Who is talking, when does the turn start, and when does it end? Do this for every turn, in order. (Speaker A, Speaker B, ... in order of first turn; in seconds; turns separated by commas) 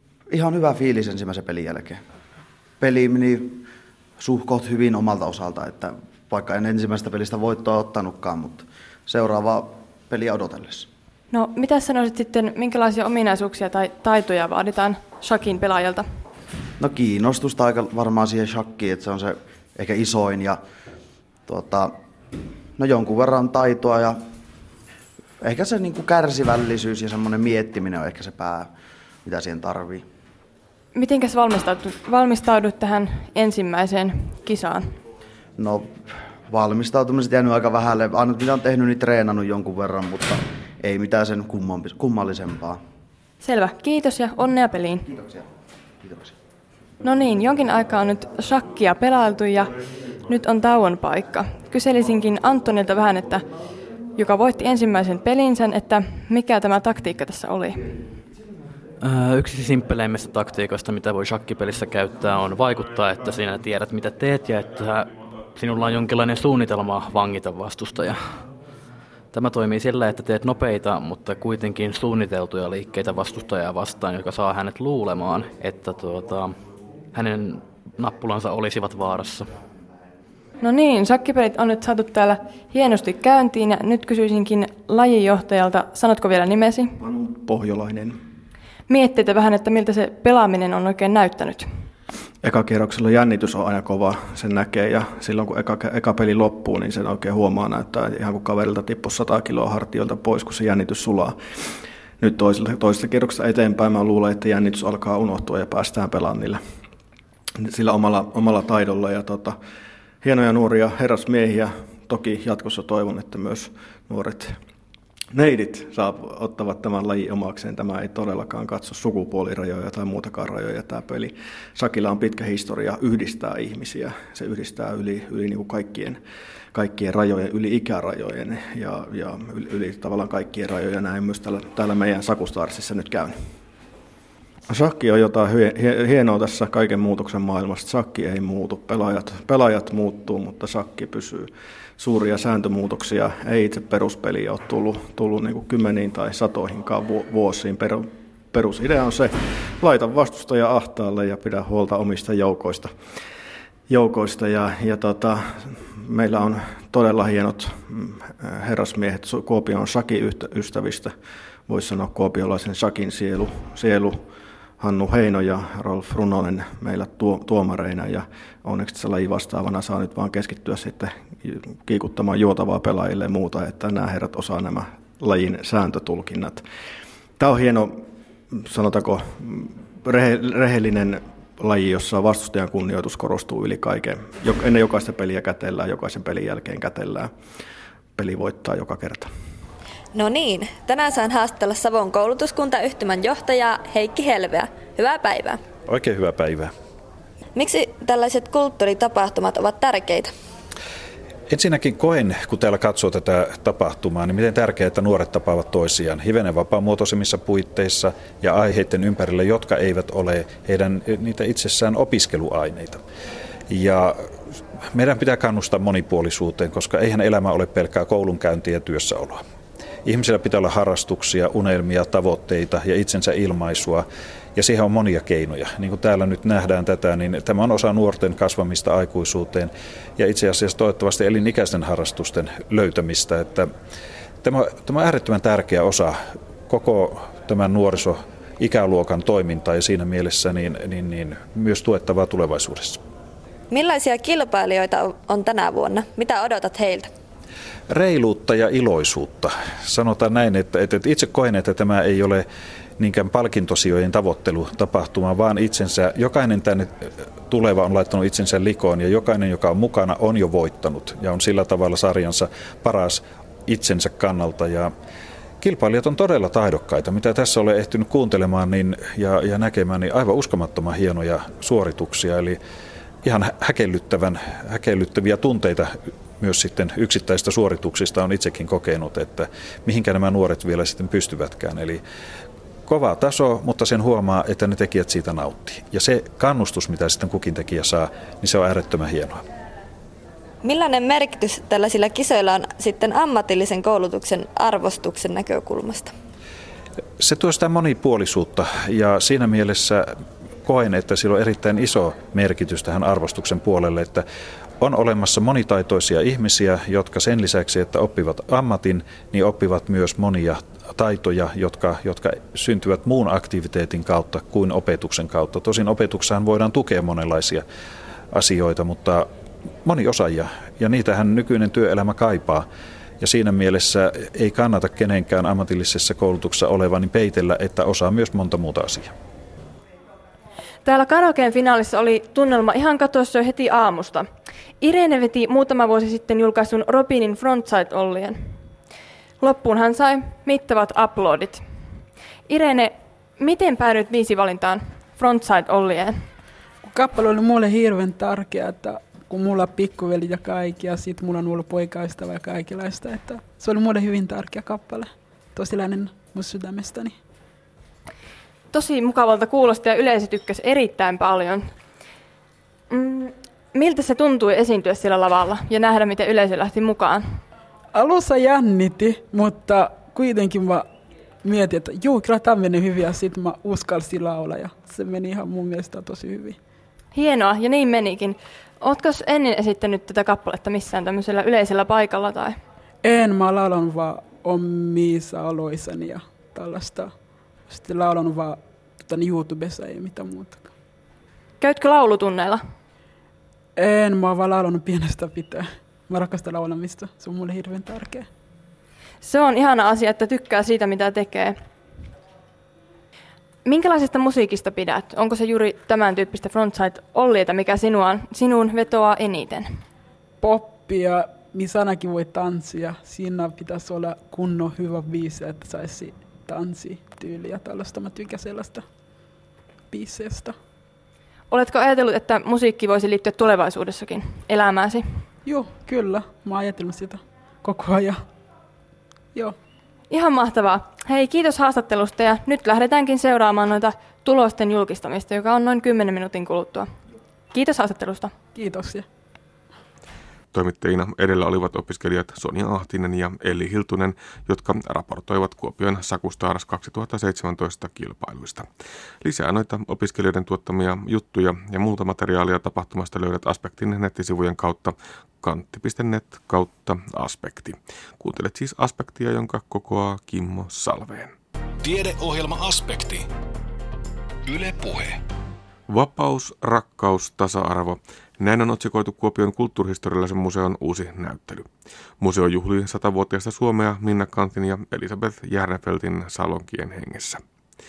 Speaker A: 0.3-2.0, Speaker A: 2.8-3.7, Speaker A: 4.2-10.9, Speaker B: 11.3-16.1, Speaker A: 16.8-20.6, Speaker A: 21.5-22.0, Speaker A: 22.8-24.2, Speaker A: 25.4-28.7, Speaker A: 29.2-30.1, Speaker B: 30.9-35.0, Speaker A: 35.6-42.8, Speaker B: 43.4-45.0, Speaker A: 45.1-45.5, Speaker A: 46.0-46.4, Speaker B: 47.0-53.5, Speaker B: 54.2-58.0, Speaker C: 59.0-68.4, Speaker C: 69.3-76.6, Speaker C: 77.1-79.5, Speaker B: 80.6-87.0, Speaker D: 87.0-88.2, Speaker B: 88.9-91.7, Speaker D: 92.4-101.4, Speaker D: 102.2-106.6, Speaker D: 107.6-109.6, Speaker D: 110.2-114.6, Speaker D: 115.3-126.2, Speaker D: 126.7-133.5, Speaker D: 134.7-152.9, Speaker D: 153.9-161.1, Speaker D: 161.7-164.2, Speaker D: 164.8-176.6, Speaker D: 177.4-187.3, Speaker D: 188.2-189.3, Speaker E: 190.1-195.6, Speaker F: 195.9-196.7, Speaker E: 197.6-200.3, Speaker F: 201.5-213.0, Speaker F: 213.7-214.3, Speaker F: 214.9-219.4, Speaker F: 220.1-233.7, Speaker F: 234.4-243.0, Speaker E: 243.7-247.1, Speaker F: 247.9-252.5, Speaker F: 253.0-264.9, Speaker F: 265.6-272.6, Speaker F: 273.2-282.0, Speaker F: 282.9-289.4, Speaker E: 290.6-296.1, Speaker F: 297.2-304.3, Speaker F: 304.8-317.6, Speaker F: 318.3-319.3, Speaker F: 319.9-322.7, Speaker F: 323.2-329.1, Speaker B: 330.9-334.3, Speaker B: 334.8-338.5, Speaker B: 339.4-341.6, Speaker B: 342.5-346.3, Speaker G: 346.9-357.2, Speaker B: 358.7-361.7, Speaker B: 362.9-367.4, Speaker G: 367.9-370.9, Speaker G: 371.4-376.6, Speaker B: 377.1-382.6, Speaker G: 383.0-387.1, Speaker G: 387.7-390.7, Speaker B: 391.6-392.6, Speaker G: 393.8-398.3, Speaker B: 399.2-401.6, Speaker B: 403.7-409.8, Speaker G: 410.4-418.9, Speaker G: 419.9-420.6, Speaker B: 421.5-425.2, Speaker G: 425.4-428.3, Speaker B: 430.1-436.9, Speaker B: 437.5-438.3, Speaker G: 438.6-439.1, Speaker H: 440.5-448.7, Speaker H: 449.2-461.3, Speaker I: 461.8-463.2, Speaker I: 464.5-465.2, Speaker H: 465.9-471.7, Speaker H: 472.2-477.4